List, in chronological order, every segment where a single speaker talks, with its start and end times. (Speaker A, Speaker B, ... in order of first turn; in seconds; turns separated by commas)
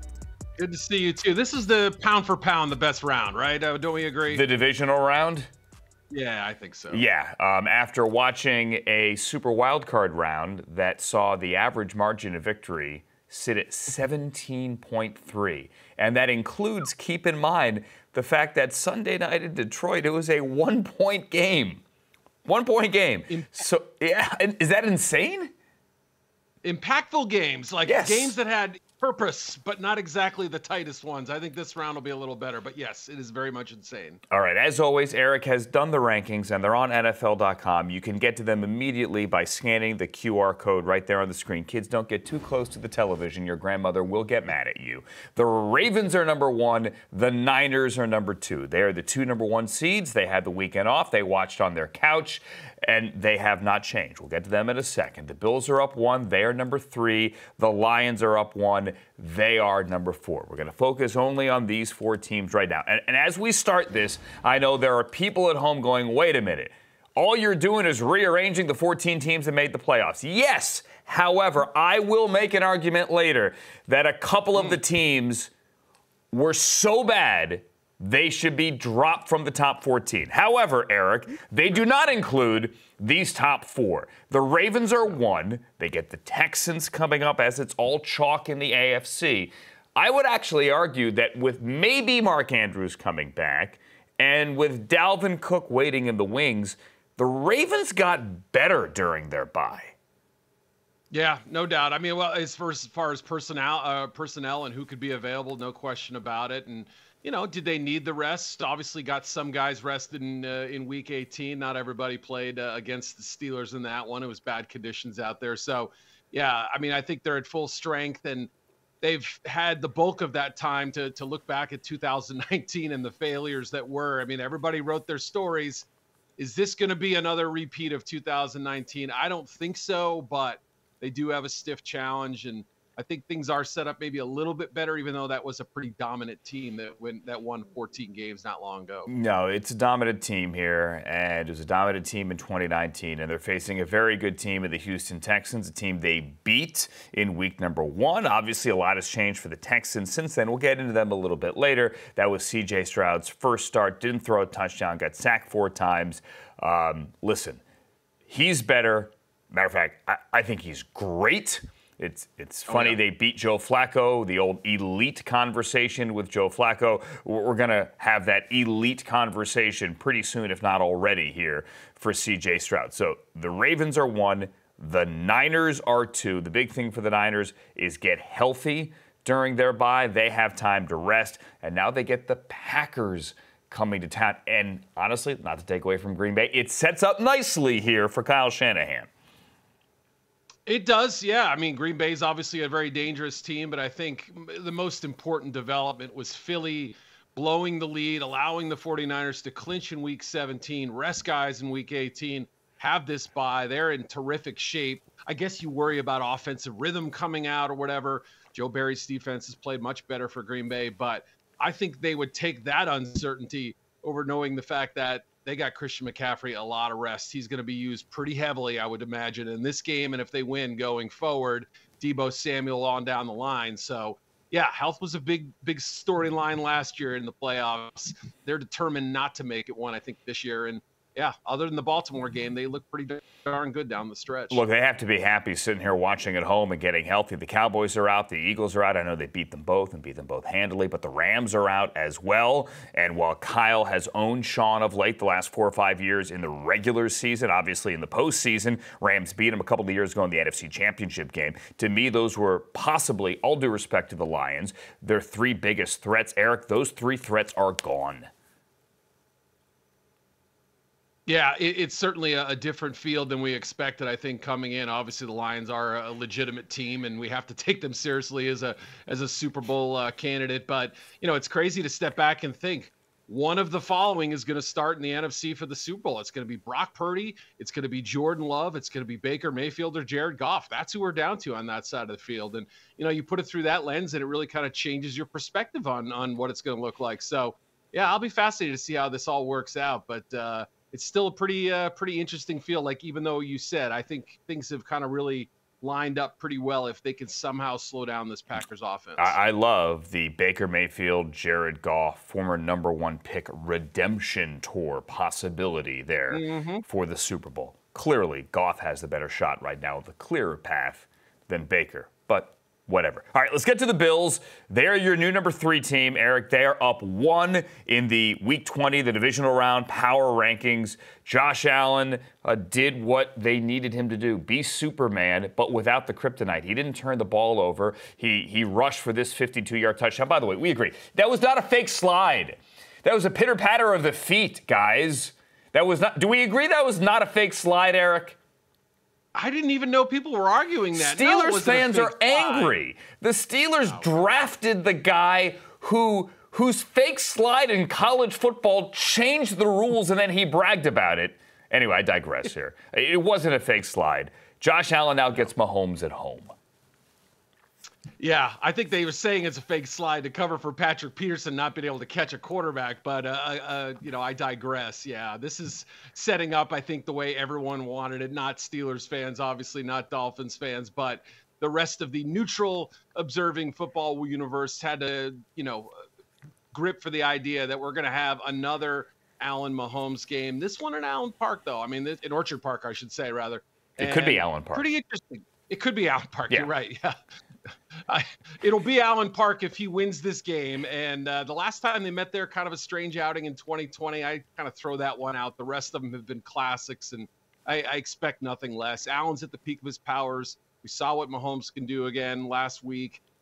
Speaker A: 0.6-4.4, Speaker B: 4.3-5.5, Speaker A: 6.1-7.0, Speaker B: 6.9-21.8, Speaker B: 22.4-25.5, Speaker A: 23.3-23.6, Speaker A: 26.6-34.2, Speaker B: 27.9-28.3, Speaker B: 34.3-75.5, Speaker B: 76.3-100.0, Speaker A: 101.1-118.5, Speaker A: 119.0-125.9, Speaker A: 126.4-139.1, Speaker B: 139.1-157.6, Speaker B: 158.3-189.1, Speaker A: 162.7-163.0, Speaker A: 190.7-234.6, Speaker B: 234.5-258.3, Speaker A: 261.3-299.4, Speaker B: 299.2-338.4, Speaker A: 306.3-306.9, Speaker A: 339.4-342.8, Speaker B: 340.9-356.5, Speaker A: 358.2-375.9, Speaker A: 376.7-387.2, Speaker B: 384.0-384.9, Speaker A: 387.9-403.2